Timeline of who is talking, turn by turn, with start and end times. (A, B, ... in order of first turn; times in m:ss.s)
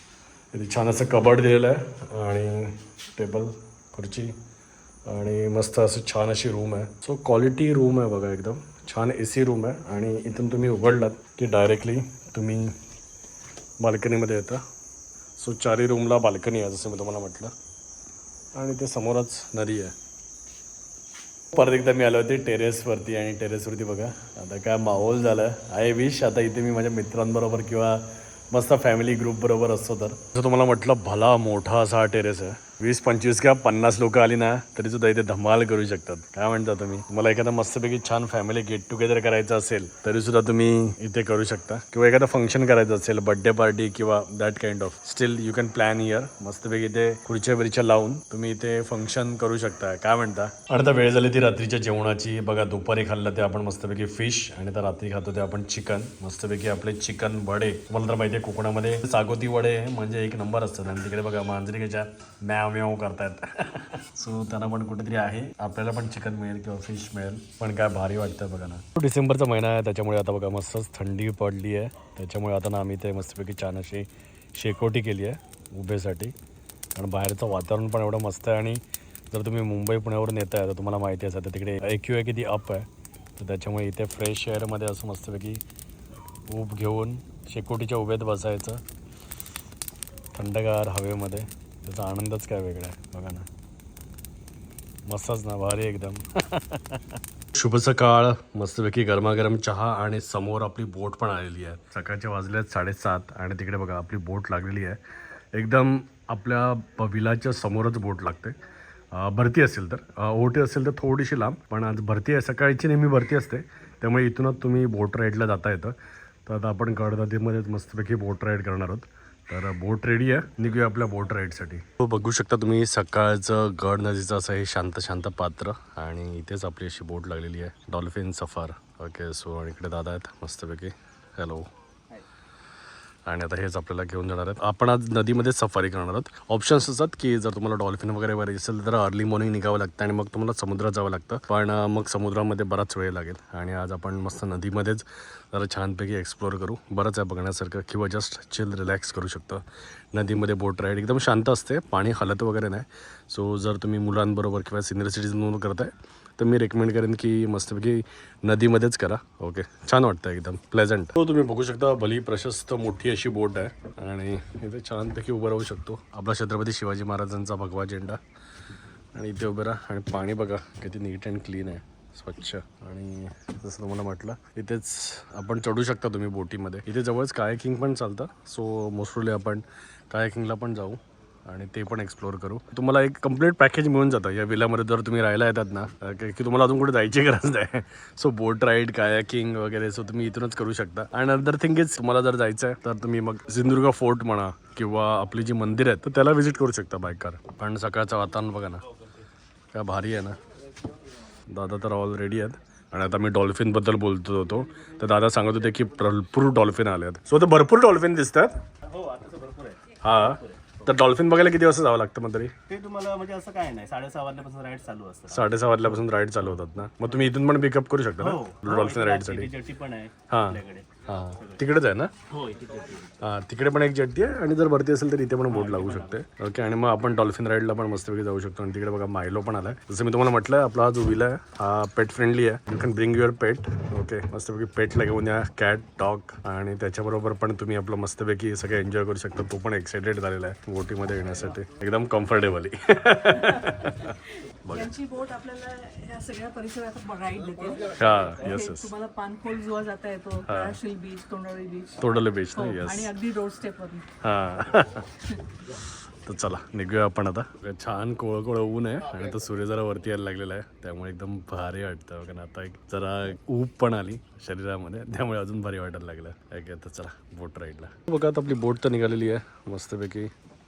0:00.5-0:04.4 A
0:05.0-0:12.7 A
0:13.8-0:14.6 A
0:15.4-0:17.5 A
0:18.5-0:19.9 A
0:21.5-1:16.3 A
1:16.9-1:25.6 A
1:26.5-1:28.8 A
1:30.3-1:33.5 A
1:35.1-1:45.0 A
1:45.5-1:48.6 A
1:49.1-1:55.9 A
1:56.4-2:11.7 A
2:13.2-2:48.2 A
2:49.1-3:18.8 A
3:19.7-3:20.4 A
3:21.5-3:28.6 A
3:28.8-3:30.9 B
3:30.0-3:32.5 A
3:32.7-3:35.6 B
3:35.3-3:39.5 A
3:38.2-3:41.6 B
3:40.3-3:42.1 A
3:42.3-3:43.1 B
3:43.2-4:04.1 A
3:45.5-3:46.2 B
4:04.6-4:04.9 A
4:04.7-4:14.0 C
4:07.9-4:08.9 A
4:10.5-4:10.8 A
4:12.0-4:13.1 A
4:14.2-4:15.1 A
4:16.2-4:30.3 A